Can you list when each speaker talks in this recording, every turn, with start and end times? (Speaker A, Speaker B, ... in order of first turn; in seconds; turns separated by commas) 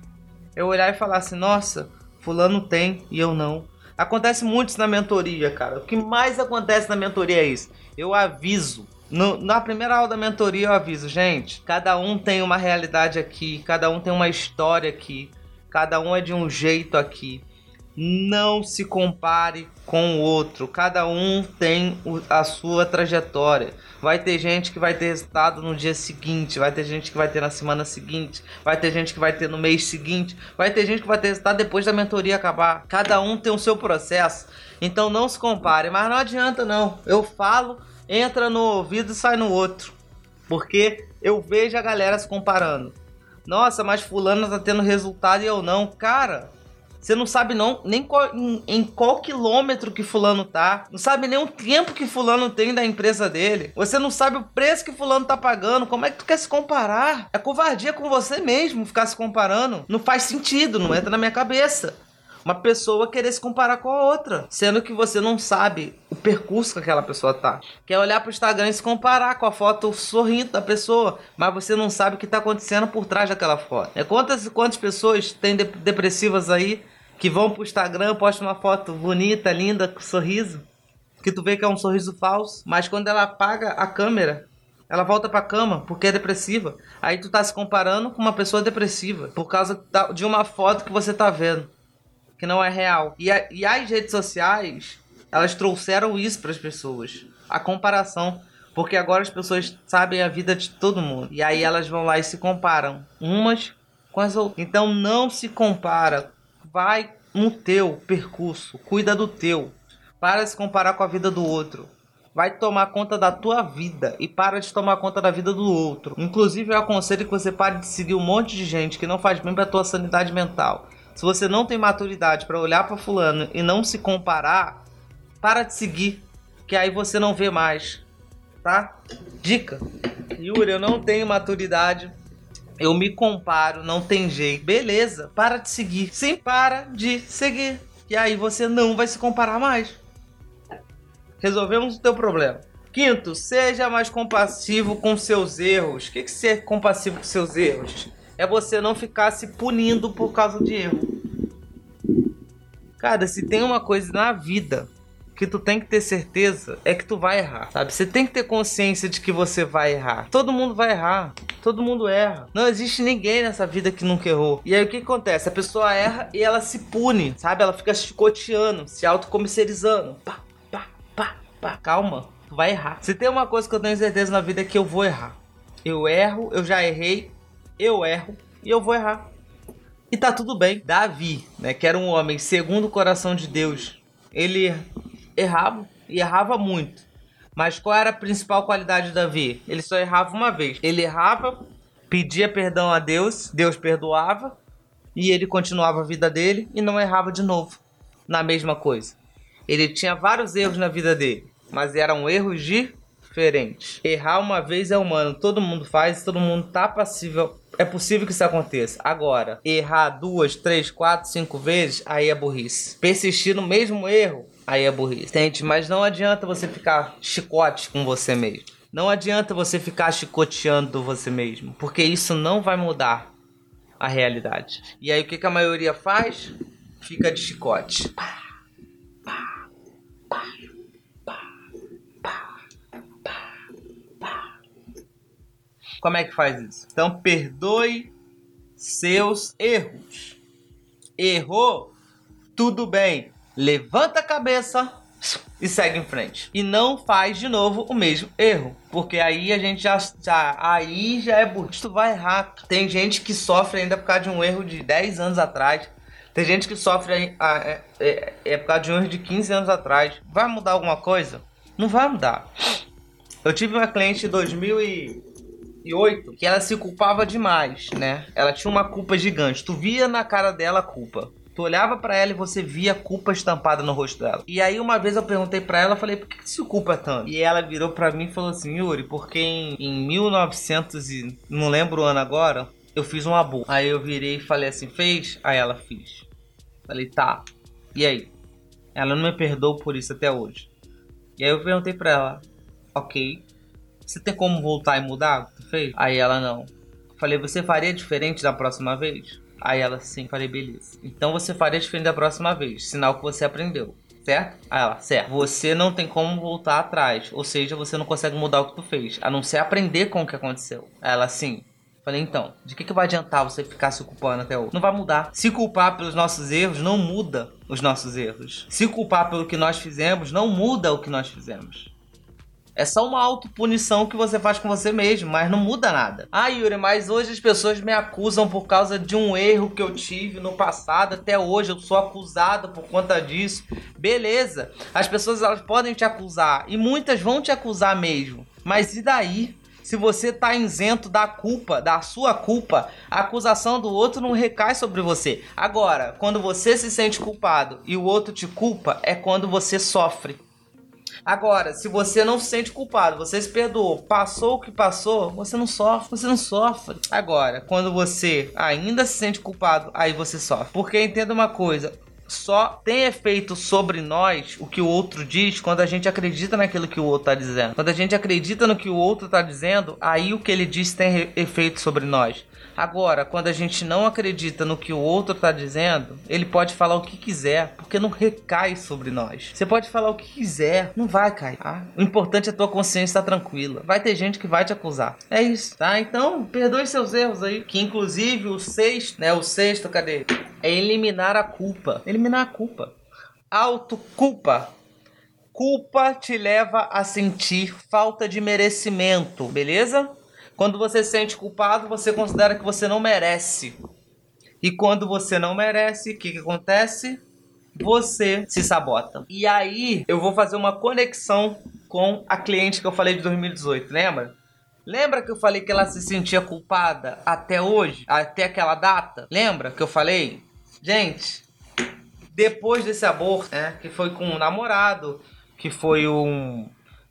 Speaker A: 0.6-40.0, Speaker A: 40.5-80.7, Speaker A: 81.2-91.7, Speaker A: 92.4-124.8, Speaker A: 125.4-128.0, Speaker A: 128.6-132.1, Speaker A: 132.8-140.0, Speaker A: 141.4-151.1, Speaker A: 153.0-179.2, Speaker A: 180.1-184.8, Speaker A: 185.4-194.5, Speaker A: 195.1-199.2, Speaker A: 199.7-223.3, Speaker A: 224.0-228.3, Speaker A: 229.3-229.5, Speaker A: 236.0-238.1, Speaker A: 238.8-240.4, Speaker A: 241.2-241.9, Speaker A: 242.5-262.5, Speaker A: 263.4-265.2, Speaker A: 265.8-286.3, Speaker A: 286.9-288.3, Speaker A: 288.9-290.7, Speaker A: 291.4-293.4, Speaker A: 294.1-321.9, Speaker A: 322.8-350.4, Speaker A: 351.2-392.9, Speaker A: 393.5-394.7, Speaker A: 395.5-403.7, Speaker A: 404.6-407.2, Speaker A: 407.7-421.4, Speaker A: 422.3-426.7